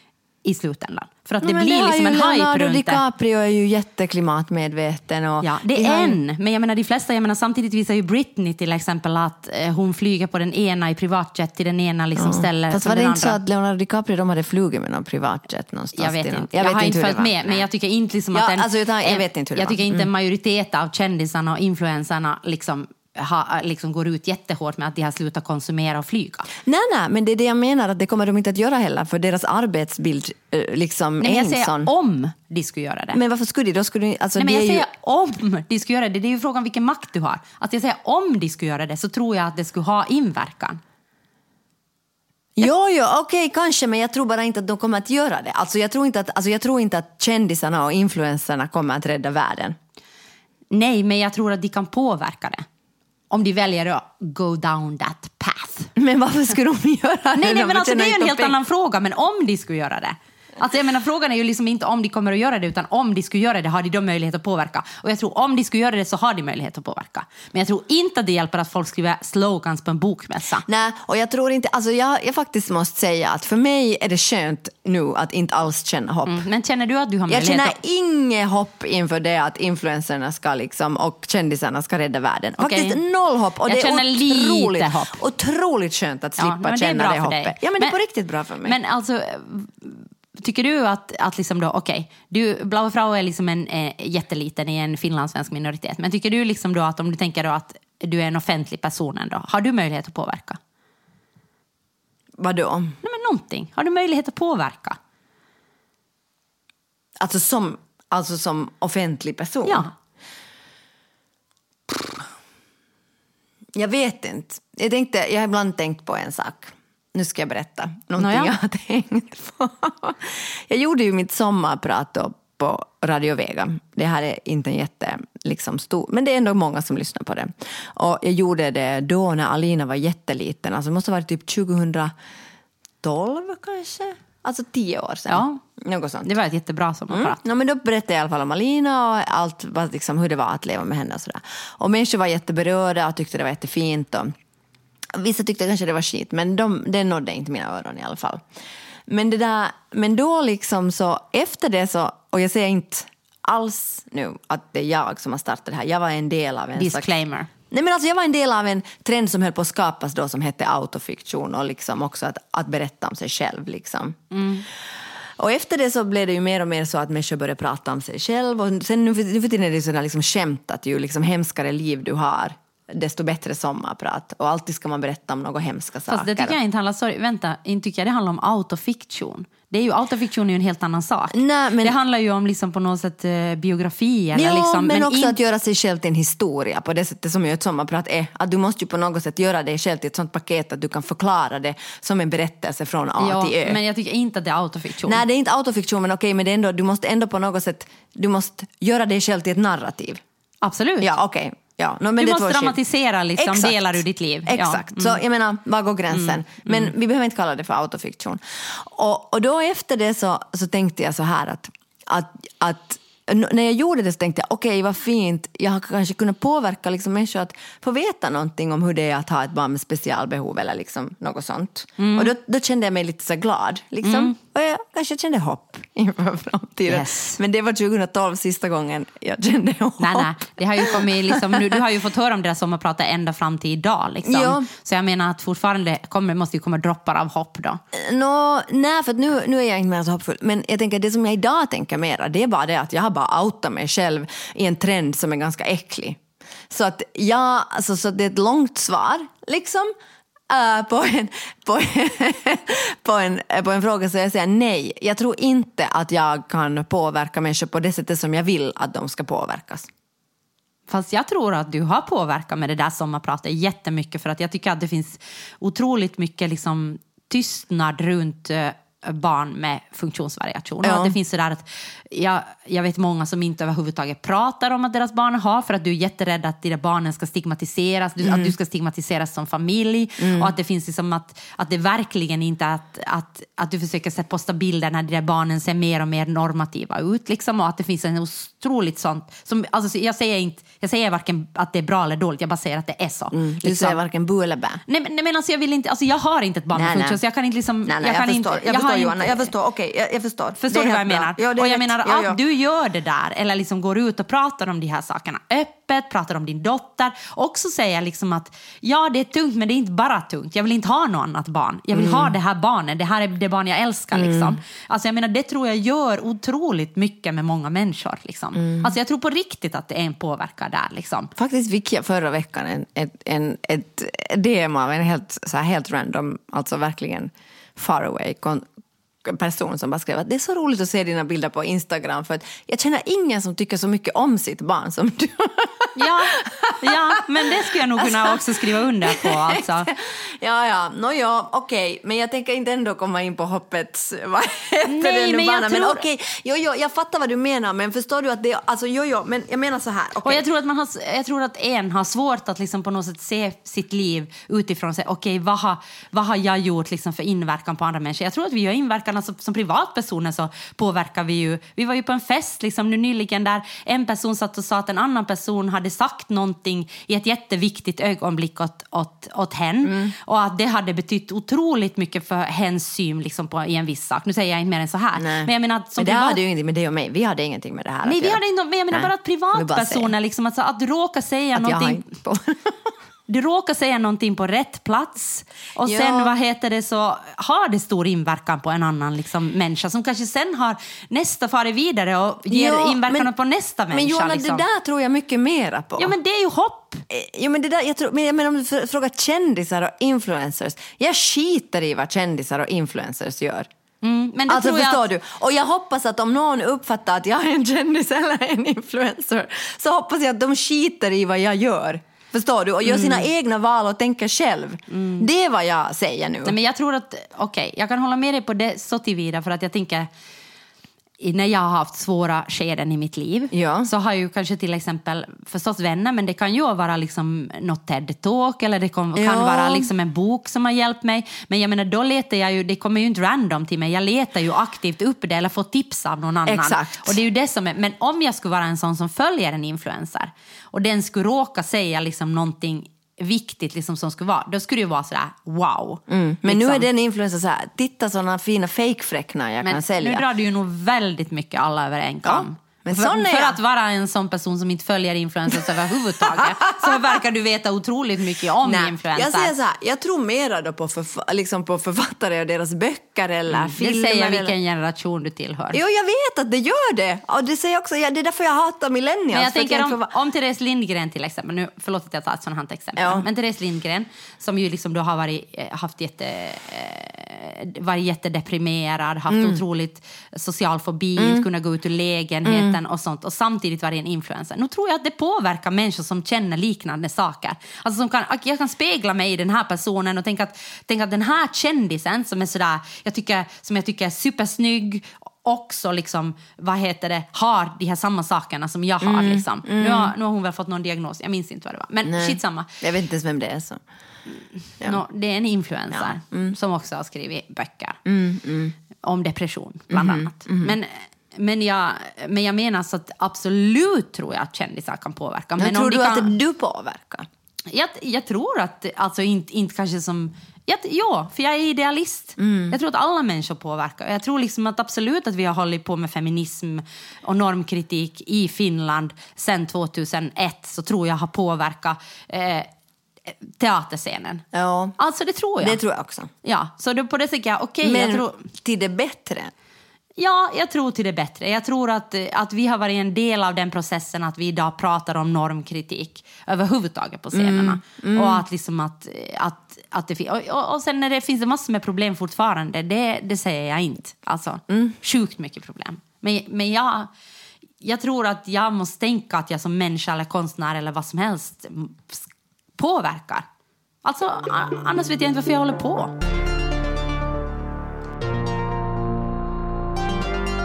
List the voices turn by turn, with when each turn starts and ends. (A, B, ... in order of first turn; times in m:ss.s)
0:00.4-0:03.0 A
0:01.4-0:06.2 B
0:05.4-0:13.4 A
0:12.2-0:17.6 B
0:16.0-0:26.5 A
0:18.3-0:20.1 B
0:26.6-0:31.9 B
0:31.2-0:33.2 A
0:33.1-0:34.9 B
0:34.4-0:40.8 A
0:42.6-0:49.8 B
0:50.7-0:52.7 A
0:53.3-0:55.9 A
0:56.0-0:58.6 B
0:57.4-1:10.7 A
1:10.7-1:16.4 B
1:16.3-1:17.8 A
1:17.3-1:28.8 B
1:22.6-1:23.0 A
1:23.7-1:25.2 A
1:26.4-1:28.0 A
1:28.6-1:40.6 A
1:42.4-1:43.0 B
1:43.0-1:45.0 A
1:47.2-1:49.9 B
1:49.6-1:49.9 A
1:51.9-1:52.3 B
1:53.8-2:12.1 B
1:58.2-1:58.6 A
2:13.0-2:16.3 B
2:15.3-2:15.6 A
2:16.2-2:17.4 A
2:17.1-2:24.3 B
2:25.1-2:28.4 B
2:29.1-2:37.1 B
2:36.8-2:37.5 A
2:37.7-2:44.2 B
2:44.3-2:44.7 A
2:45.4-2:56.6 B
2:56.1-3:05.4 A
3:01.3-3:02.0 B
3:04.4-3:13.8 B
3:13.2-3:15.2 A
3:15.0-3:20.2 B
3:20.6-3:21.1 A
3:21.0-3:22.8 B
3:22.2-3:25.2 A
3:23.4-3:50.3 B
3:26.1-3:26.9 A
3:42.0-3:42.3 A
3:44.0-3:44.4 A
3:46.9-3:47.4 A
3:50.0-3:57.8 A
3:50.8-3:51.8 B
3:54.3-3:54.7 B
3:57.9-4:06.2 B
4:06.7-4:09.9 B
4:10.5-4:19.9 B
4:20.9-4:54.0 A
4:30.8-4:31.1 B
4:38.2-4:38.5 B
4:40.2-4:40.5 B
4:53.3-4:54.8 B
4:54.9-4:59.5 A
4:56.7-4:57.2 B
4:57.9-5:02.4 B
5:00.6-5:21.3 A
5:11.9-5:12.4 B
5:14.1-5:14.6 B
5:21.4-5:28.7 B
5:29.2-5:50.4 B
5:36.0-5:39.9 A
5:44.9-5:46.0 A
5:50.2-6:16.4 A
6:09.8-6:10.1 B
6:15.2-6:18.4 B
6:18.0-6:22.1 A
6:18.9-6:20.1 B
6:21.6-6:22.7 B
6:23.3-6:34.6 A
6:25.9-6:26.3 B
6:32.5-6:33.3 B
6:33.9-6:36.2 B
6:36.0-6:37.0 A
6:37.1-6:43.7 B
6:44.0-6:45.0 A
6:44.5-6:56.6 B
6:52.8-6:53.2 A
6:54.9-6:55.3 A
6:56.4-7:00.1 A
7:01.2-7:26.9 A
7:03.5-7:03.9 B
7:09.2-7:09.9 B
7:16.5-7:17.2 B
7:26.1-7:30.2 B
7:29.6-7:39.5 A
7:32.2-7:33.6 B
7:36.4-7:37.0 B
7:38.6-7:44.5 B
7:43.5-7:45.8 A
7:45.7-7:50.1 B
7:49.3-8:22.7 A
7:53.0-7:53.2 B
7:59.3-7:59.6 B
8:01.2-8:01.4 B
8:02.4-8:02.8 B
8:19.0-8:20.1 B
8:22.0-8:23.8 B
8:24.6-8:28.0 A
8:25.9-8:26.5 B
8:28.1-8:28.8 B
8:29.0-8:36.4 A
8:29.9-8:30.8 B
8:35.6-8:37.3 B
8:37.7-8:52.7 A
8:42.4-8:42.8 B
8:53.3-8:54.5 A
8:54.5-8:55.0 B
8:55.0-8:55.8 A
8:55.6-8:56.3 B
8:56.4-8:58.4 A
8:57.8-8:59.5 B
9:00.2-9:17.1 A
9:07.3-9:08.4 B
9:14.7-9:15.0 B
9:17.8-9:23.5 A
9:24.0-9:26.1 A